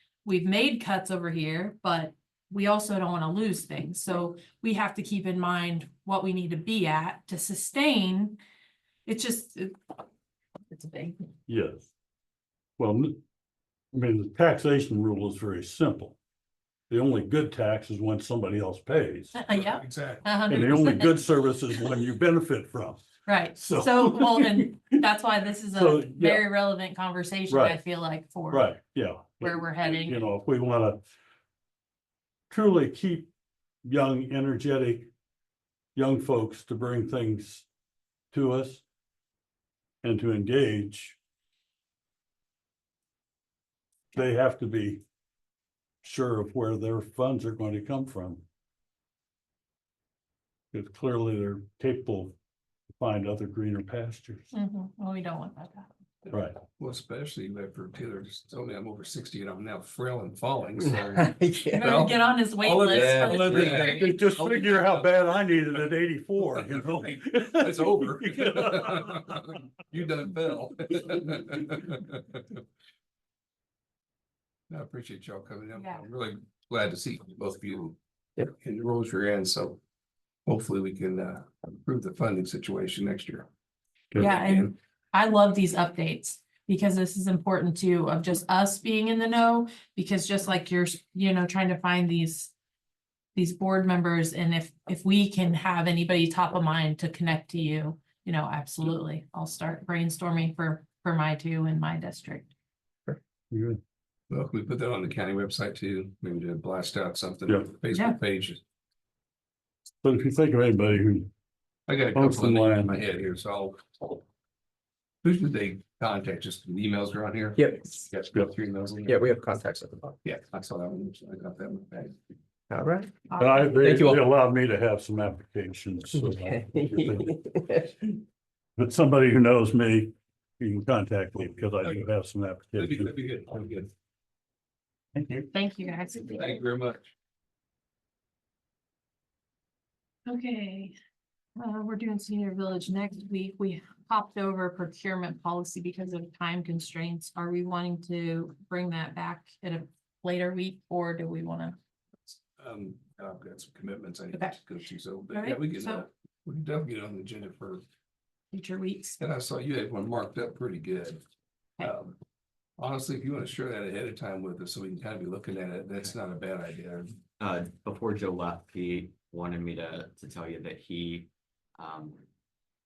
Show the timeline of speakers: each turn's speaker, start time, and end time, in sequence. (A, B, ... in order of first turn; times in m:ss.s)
0:00.2-0:08.4 A
0:09.0-0:09.8 A
0:10.7-0:11.2 A
0:11.5-0:11.9 B
0:12.8-0:13.2 B
0:13.9-0:16.2 B
0:16.9-0:19.5 B
0:19.4-0:21.2 A
0:19.6-0:20.3 C
0:20.5-0:25.0 B
0:23.2-0:28.7 A
0:25.7-0:26.5 B
0:27.5-0:27.8 B
0:28.5-0:31.0 B
0:29.4-0:30.2 A
0:32.5-0:33.3 B
0:33.8-0:35.1 B
0:35.9-0:37.7 B
0:38.3-0:38.8 B
0:40.0-0:41.2 B
0:44.1-0:45.0 B
0:46.0-0:48.4 B
0:50.7-0:52.4 B
0:53.0-0:54.5 B
0:54.5-0:55.9 A
0:56.2-1:04.7 C
0:56.3-0:56.6 B
1:00.9-1:02.0 D
1:01.7-1:04.1 A
1:02.9-1:09.6 B
1:03.1-1:04.0 D
1:06.8-1:12.6 C
1:14.7-1:18.0 C
1:15.7-1:16.0 A
1:18.5-1:19.8 C
1:20.4-1:23.5 C
1:24.2-1:24.7 C
1:24.2-1:32.5 A
1:33.3-1:42.5 A
1:43.5-1:43.8 B
1:44.3-1:48.6 C
1:50.0-1:51.3 B
1:51.9-1:54.2 C
1:52.1-1:53.0 B
1:55.2-1:59.2 C
1:57.6-1:58.1 D
1:59.0-2:00.2 D
2:00.2-2:02.1 C
2:02.7-2:04.2 D
2:03.3-2:03.7 A
2:03.3-2:07.4 B
2:06.1-2:08.2 D
2:08.8-2:13.2 B
2:12.8-2:13.9 C
2:15.1-2:15.5 B
2:15.5-2:16.6 A
2:16.3-2:17.1 C
2:20.2-2:20.9 A
2:21.6-2:31.8 A
2:32.6-2:37.8 C
2:34.3-2:34.6 A
2:35.3-2:36.0 A
2:38.5-2:39.2 A
2:39.2-2:41.2 C
2:41.8-2:42.2 C
2:42.8-2:47.2 C
2:47.4-2:52.2 E